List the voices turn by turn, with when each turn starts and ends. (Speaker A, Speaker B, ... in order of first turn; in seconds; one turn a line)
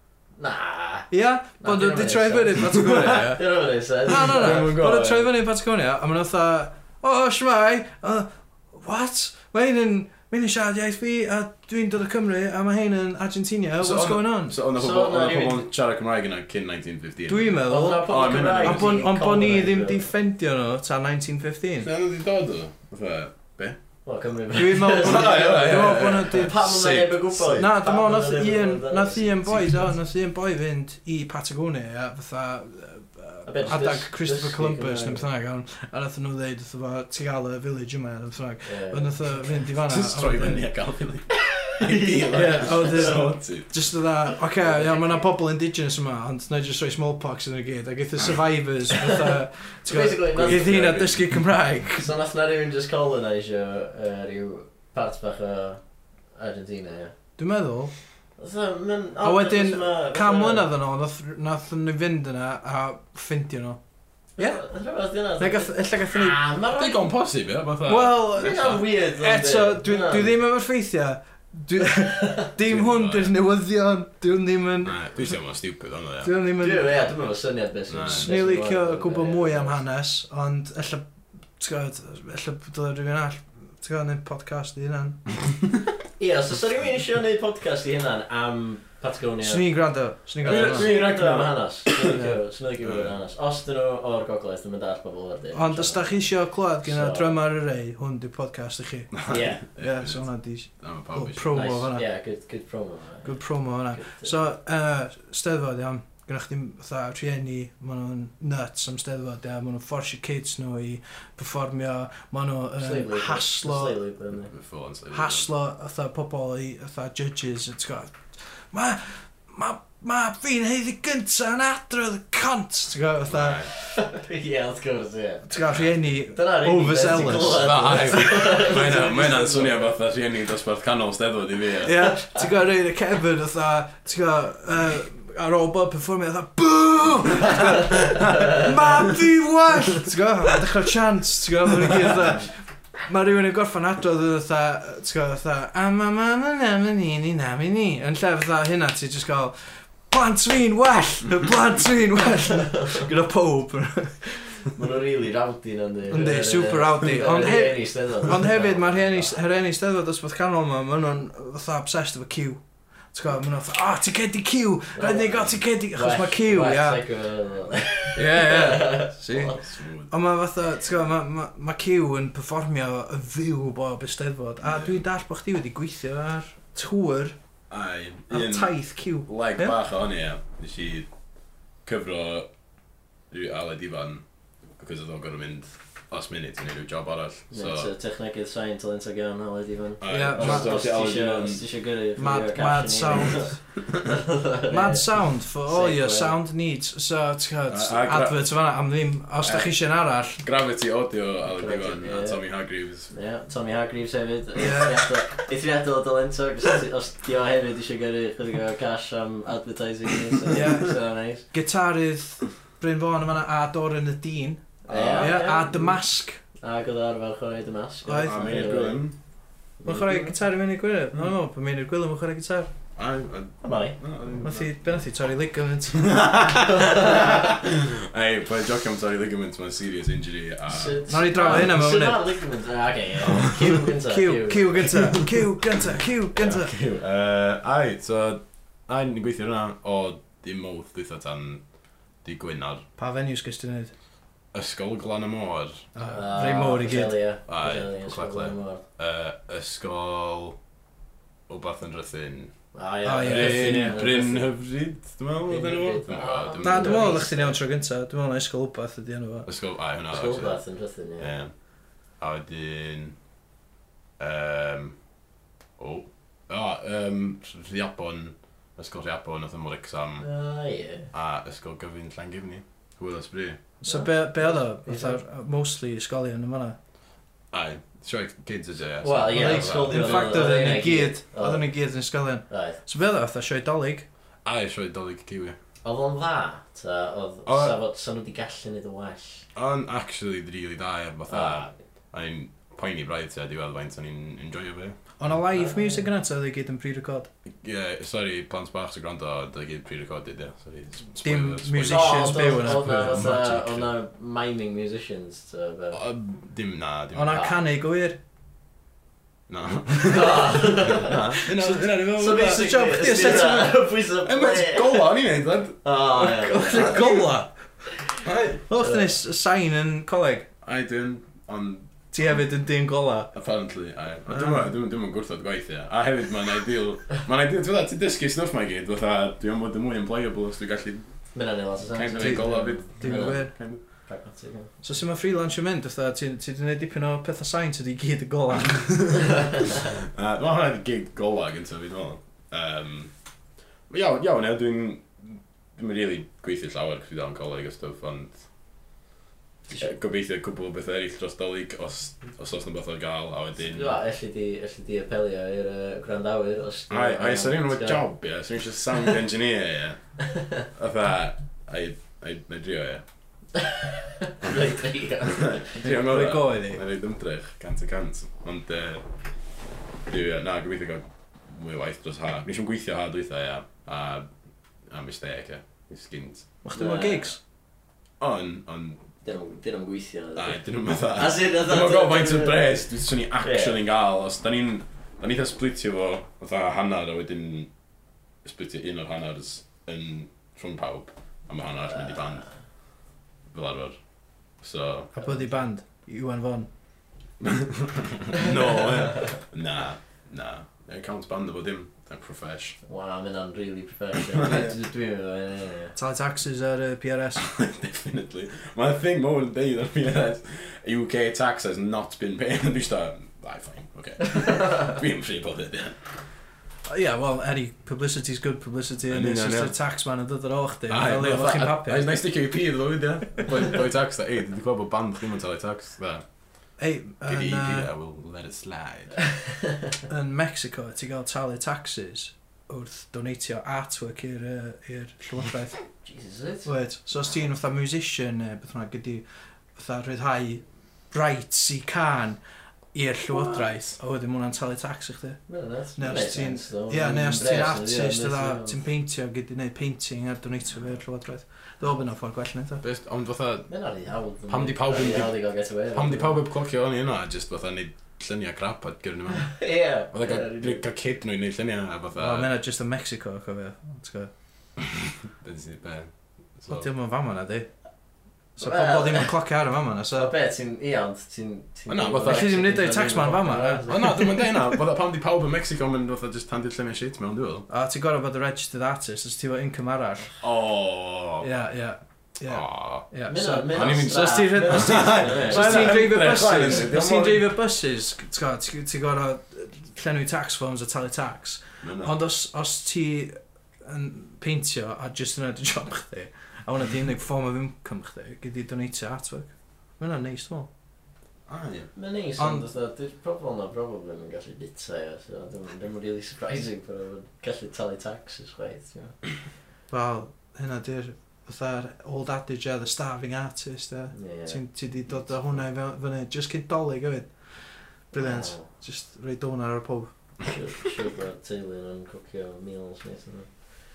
Speaker A: 0.4-1.1
Speaker B: 1.1-3.5
Speaker A: 1.6-4.8
Speaker B: 4.0-14.6
Speaker C: 4.1-5.3
Speaker C: 13.8-19.1
Speaker A: 14.7-15.7
Speaker B: 17.3-21.9
Speaker A: 17.7-20.1
Speaker C: 21.8-23.8
Speaker A: 24.1-29.3
Speaker B: 24.5-26.6
Speaker C: 24.8-27.7
Speaker B: 27.5-40.7
Speaker C: 29.3-29.9
Speaker A: 33.5-35.3
Speaker A: 38.6-39.4
Speaker C: 39.9-43.7
Speaker A: 41.6-43.2
Speaker B: 42.3-52.1
Speaker A: 44.6-45.3
Speaker A: 49.9-51.2
Speaker C: 50.3-51.4
Speaker A: 52.0-55.8
Speaker A: 56.4-57.1
Speaker B: 57.4-57.9
Speaker A: 58.4-60.7
Speaker B: 59.2-63.8
Speaker A: 64.4-67.1
Speaker B: 65.4-66.4
Speaker C: 66.7-68.8
Speaker B: 67.9-75.3
Speaker A: 68.4-70.4
Speaker A: 72.1-72.5
Speaker C: 72.6-73.3
Speaker C: 74.8-76.3
Speaker B: 76.2-77.0
Speaker A: 76.6-79.8
Speaker C: 77.9-78.3
Speaker B: 78.1-81.1
Speaker B: 81.6-85.5
Speaker A: 86.2-89.7
Speaker B: 89.4-91.0
Speaker C: 90.4-92.1
Speaker A: 90.4-96.3
Speaker B: 92.1-92.4
Speaker C: 92.8-93.2
Speaker B: 95.5-102.0
Speaker A: 96.8-97.4
Speaker C: 99.1-101.5
Speaker A: 99.3-99.6
Speaker A: 101.5-104.3
Speaker B: 103.2-114.0
Speaker A: 112.8-114.5
Speaker C: 114.5-115.5
Speaker B: 115.1-123.8
Speaker C: 123.3-123.7
Speaker A: 123.7-125.5
Speaker B: 125.5-128.1
Speaker A: 126.3-129.9
Speaker C: 127.5-131.9
Speaker B: 131.8-154.7
Speaker A: 154.7-159.4
Speaker B: 156.1-162.6
Speaker B: 163.1-167.1
Speaker A: 164.9-169.6
Speaker B: 168.2-177.4
Speaker C: 169.5-170.1
Speaker C: 174.6-175.0
Speaker C: 177.7-178.7
Speaker B: 178.3-179.8
Speaker C: 179.2-181.1
Speaker C: 181.8-182.5
Speaker C: 183.3-184.2
Speaker C: 184.7-187.9
Speaker A: 187.5-195.1
Speaker C: 190.0-191.6
Speaker B: 190.1-190.8
Speaker B: 192.2-193.7
Speaker B: 194.7-200.4
Speaker A: 195.7-196.3
Speaker C: 197.7-198.5
Speaker C: 199.4-199.7
Speaker C: 200.4-203.1
Speaker A: 201.5-202.4
Speaker A: 203.1-211.5
Speaker B: 204.6-205.1
Speaker B: 210.5-216.4
Speaker A: 214.8-216.0
Speaker C: 214.9-215.4
Speaker A: 216.6-219.1
Speaker B: 218.1-218.7
Speaker C: 218.2-219.2
Speaker A: 219.8-220.3
Speaker B: 219.8-222.7
Speaker C: 223.0-224.8
Speaker A: 223.6-224.0
Speaker B: 224.4-226.5
Speaker C: 225.9-231.7
Speaker A: 226.7-227.5
Speaker A: 230.7-235.1
Speaker B: 231.1-232.3
Speaker C: 233.2-233.6
Speaker B: 233.3-236.7
Speaker C: 234.9-241.6
Speaker C: 242.2-242.8
Speaker B: 243.0-243.9
Speaker C: 244.5-245.9
Speaker B: 245.9-247.2
Speaker A: 246.1-248.8
Speaker C: 247.5-250.6
Speaker C: 251.5-252.5
Speaker A: 252.7-254.5
Speaker B: 253.1-254.0
Speaker C: 253.2-257.2
Speaker A: 255.5-257.6
Speaker B: 256.6-259.5
Speaker C: 259.5-260.6
Speaker A: 260.1-261.3
Speaker C: 261.2-261.5
Speaker C: 262.1-263.2
Speaker C: 264.2-265.0
Speaker C: 265.8-270.3
Speaker A: 270.2-271.1
Speaker C: 271.1-273.6
Speaker B: 273.8-276.8
Speaker A: 273.8-275.2
Speaker C: 277.5-280.5
Speaker A: 279.0-281.7
Speaker B: 279.3-284.1
Speaker A: 282.5-282.8
Speaker C: 284.4-285.6
Speaker A: 285.8-289.4
Speaker C: 287.5-287.8
Speaker C: 289.6-295.0
Speaker A: 291.3-291.7
Speaker B: 295.2-297.3
Speaker A: 295.5-296.1
Speaker C: 297.5-303.8
Speaker B: 301.2-303.7
Speaker A: 301.8-306.0
Speaker C: 305.9-307.5
Speaker B: 307.1-308.2
Speaker A: 307.3-307.6
Speaker C: 309.5-313.5
Speaker A: 310.0-311.4
Speaker B: 311.5-313.9
Speaker A: 312.1-315.1
Speaker C: 314.2-315.8
Speaker A: 315.8-317.2
Speaker B: 316.2-317.5
Speaker C: 318.2-318.6
Speaker B: 318.7-320.5
Speaker A: 318.8-319.1
Speaker C: 320.6-322.4
Speaker B: 322.1-323.3
Speaker C: 323.3-331.3
Speaker B: 324.3-324.7
Speaker A: 331.3-334.7
Speaker C: 331.9-333.8
Speaker B: 332.2-333.5
Speaker B: 334.8-339.6
Speaker C: 338.6-339.2
Speaker C: 339.8-343.1
Speaker C: 343.9-348.4
Speaker C: 349.8-353.9
Speaker A: 353.6-358.0
Speaker C: 356.9-360.0
Speaker A: 360.3-360.6
Speaker C: 360.8-363.0
Speaker A: 363.6-365.8
Speaker C: 365.2-369.0
Speaker B: 365.8-366.8
Speaker C: 370.1-374.3
Speaker C: 374.9-376.5
Speaker B: 376.6-377.4
Speaker A: 376.7-377.3
Speaker C: 378.2-379.0
Speaker A: 379.2-382.7
Speaker C: 380.4-387.7
Speaker A: 383.4-383.8
Speaker C: 388.4-392.5
Speaker C: 393.5-395.1
Speaker B: 395.2-396.7
Speaker C: 397.4-402.8
Speaker A: 402.9-405.9
Speaker C: 404.3-404.7
Speaker B: 406.0-407.5
Speaker C: 407.4-416.0
Speaker B: 416.9-422.1
Speaker C: 419.1-419.7
Speaker C: 420.9-426.2
Speaker B: 426.8-427.9
Speaker C: 427.2-429.2
Speaker B: 430.1-435.9
Speaker A: 436.0-436.7
Speaker B: 436.6-439.2
Speaker B: 439.8-442.4
Speaker B: 442.9-445.4
Speaker A: 445.5-448.8
Speaker B: 446.0-452.8
Speaker C: 452.8-453.7
Speaker A: 453.7-456.4
Speaker C: 454.5-455.4
Speaker C: 455.9-462.5
Speaker A: 459.5-460.8
Speaker B: 462.2-464.3
Speaker C: 465.0-466.9
Speaker B: 466.7-467.7
Speaker B: 468.6-470.3
Speaker A: 468.6-469.3
Speaker A: 470.2-474.3
Speaker C: 471.9-472.6
Speaker B: 472.3-474.4
Speaker C: 473.9-477.7
Speaker B: 477.7-480.4
Speaker C: 480.4-481.5
Speaker B: 481.4-500.7
Speaker C: 482.5-483.1
Speaker A: 483.3-486.0
Speaker C: 483.7-487.5
Speaker C: 491.8-492.1
Speaker C: 501.5-501.9
Speaker A: 501.9-509.2
Speaker B: 502.4-502.6
Speaker B: 509.9-520.5
Speaker A: 514.1-514.6
Speaker A: 518.1-518.7
Speaker A: 520.5-523.5